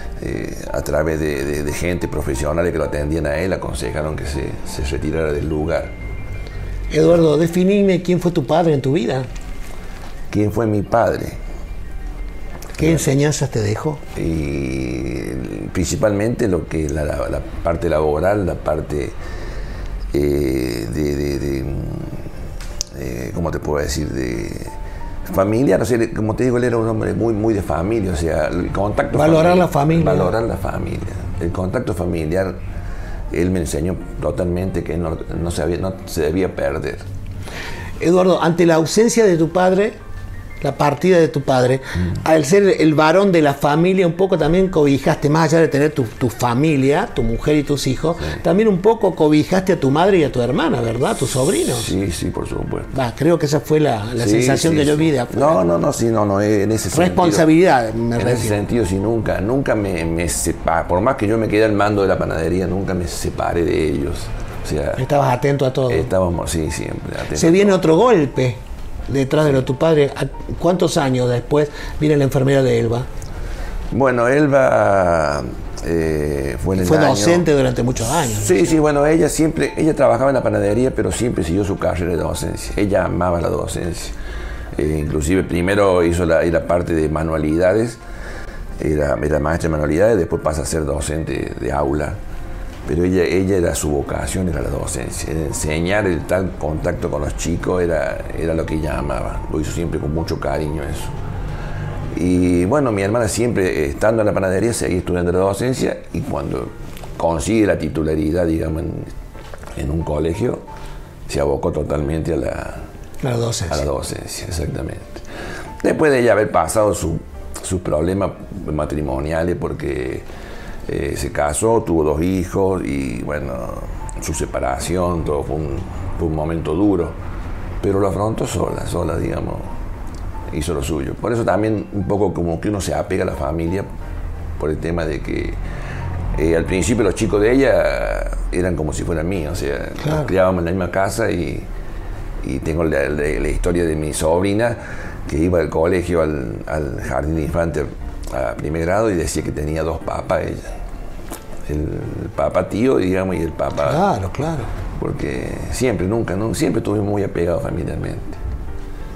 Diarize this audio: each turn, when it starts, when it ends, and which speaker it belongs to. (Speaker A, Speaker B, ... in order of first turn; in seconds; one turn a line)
Speaker A: 0.2-5.9
Speaker B: 6.9-9.3
Speaker A: 10.3-11.4
Speaker B: 12.8-14.0
Speaker A: 14.1-19.1
Speaker A: 20.1-22.2
Speaker A: 22.9-24.7
Speaker A: 25.2-32.6
Speaker B: 29.1-30.3
Speaker A: 33.3-37.0
Speaker B: 38.0-40.0
Speaker B: 40.6-51.9
Speaker A: 51.7-52.9
Speaker B: 52.9-55.6
Speaker A: 54.2-57.5
Speaker B: 56.9-58.6
Speaker A: 58.2-65.0
Speaker B: 65.0-66.1
Speaker A: 65.9-67.9
Speaker B: 67.3-73.1
Speaker A: 73.9-77.5
Speaker B: 76.7-78.7
Speaker A: 78.2-84.1
Speaker A: 84.7-88.0
Speaker A: 88.8-92.2
Speaker A: 92.8-101.1
Speaker A: 102.1-109.1
Speaker A: 109.8-110.6
Speaker A: 111.3-112.8
Speaker B: 113.2-113.9
Speaker A: 113.7-115.2
Speaker A: 115.8-120.3
Speaker A: 120.9-127.2
Speaker A: 127.8-129.7
Speaker A: 130.5-133.9
Speaker A: 134.6-135.6
Speaker A: 136.3-141.7
Speaker B: 140.0-140.3
Speaker A: 142.4-150.7
Speaker A: 151.7-154.0
Speaker B: 153.8-154.7
Speaker A: 155.0-158.4